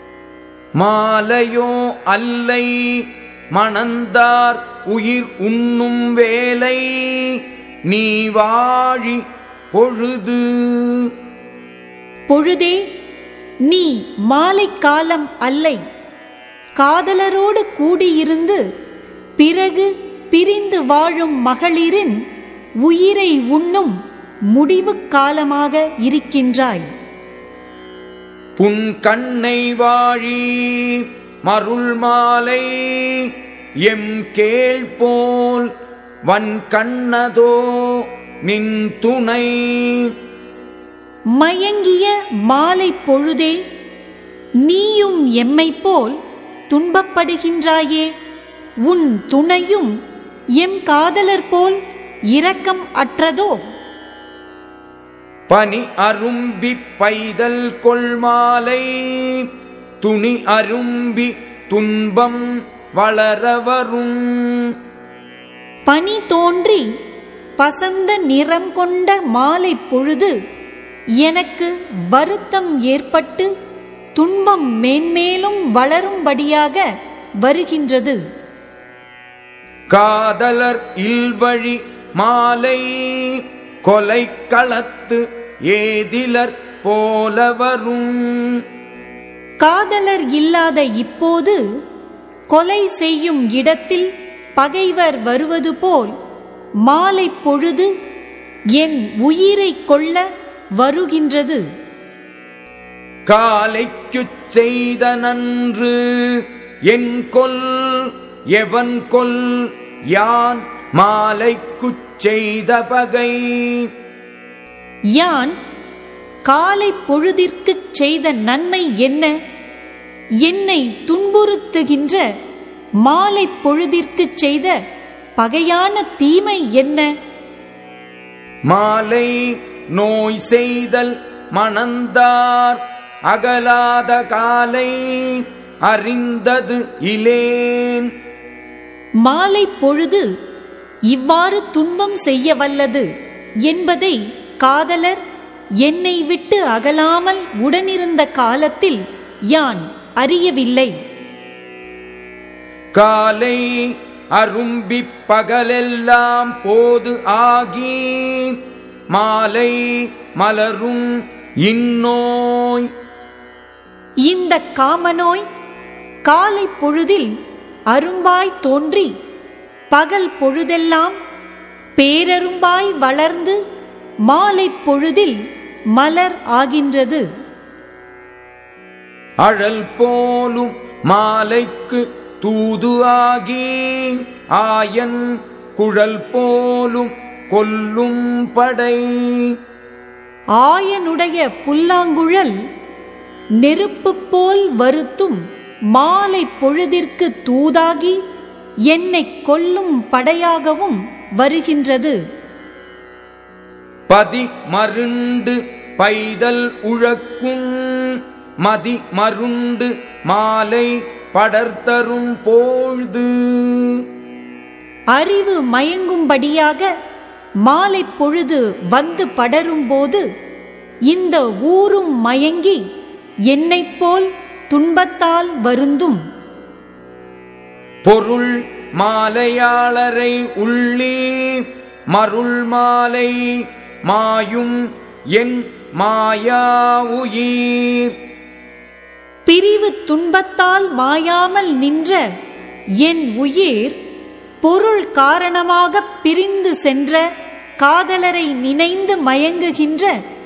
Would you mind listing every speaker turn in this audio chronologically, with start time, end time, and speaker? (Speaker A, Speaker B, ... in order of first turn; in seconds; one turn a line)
Speaker A: 0.8-11.1
Speaker B: 12.3-12.8
Speaker B: 13.6-15.8
Speaker B: 16.8-18.6
Speaker B: 19.4-22.2
Speaker B: 22.8-24.0
Speaker B: 24.5-26.9
Speaker A: 28.6-33.3
Speaker A: 33.9-35.7
Speaker A: 36.3-40.1
Speaker B: 41.3-43.6
Speaker B: 44.6-46.2
Speaker B: 46.7-48.1
Speaker B: 48.9-49.9
Speaker B: 50.6-51.8
Speaker B: 52.3-53.6
Speaker A: 55.5-59.5
Speaker A: 60.0-64.8
Speaker B: 65.9-66.8
Speaker B: 67.6-70.3
Speaker B: 71.2-73.5
Speaker B: 74.2-76.8
Speaker B: 77.4-78.2
Speaker A: 79.9-88.6
Speaker B: 89.6-91.6
Speaker B: 92.5-96.2
Speaker B: 96.8-97.9
Speaker B: 98.8-100.2
Speaker B: 100.8-101.6
Speaker A: 103.3-113.9
Speaker B: 115.2-115.5
Speaker B: 116.5-119.3
Speaker B: 120.4-122.2
Speaker B: 123.0-124.8
Speaker B: 125.4-127.1
Speaker A: 128.7-138.1
Speaker B: 139.2-140.3
Speaker B: 141.1-143.1
Speaker B: 143.7-145.2
Speaker B: 145.8-149.0
Speaker B: 149.5-150.9
Speaker A: 152.9-158.6
Speaker A: 159.1-162.9
Speaker B: 164.3-165.4
Speaker B: 166.2-167.3
Speaker B: 167.9-169.1
Speaker B: 169.9-171.2
Speaker B: 172.0-173.6
Speaker B: 174.3-175.4
Speaker B: 175.9-177.2
Speaker A: 179.4-189.6
Speaker B: 190.6-192.6
Speaker B: 193.6-195.4
Speaker B: 195.9-198.2
Speaker B: 198.9-202.2
Speaker A: 204.1-214.0
Speaker B: 215.1-216.9
Speaker B: 217.6-220.2
Speaker B: 221.1-222.8
Speaker B: 223.5-226.2
Speaker A: 228.1-234.8
Speaker A: 235.3-238.2
Speaker B: 239.5-242.2
Speaker B: 243.0-244.0
Speaker B: 244.6-247.2
Speaker B: 247.8-250.1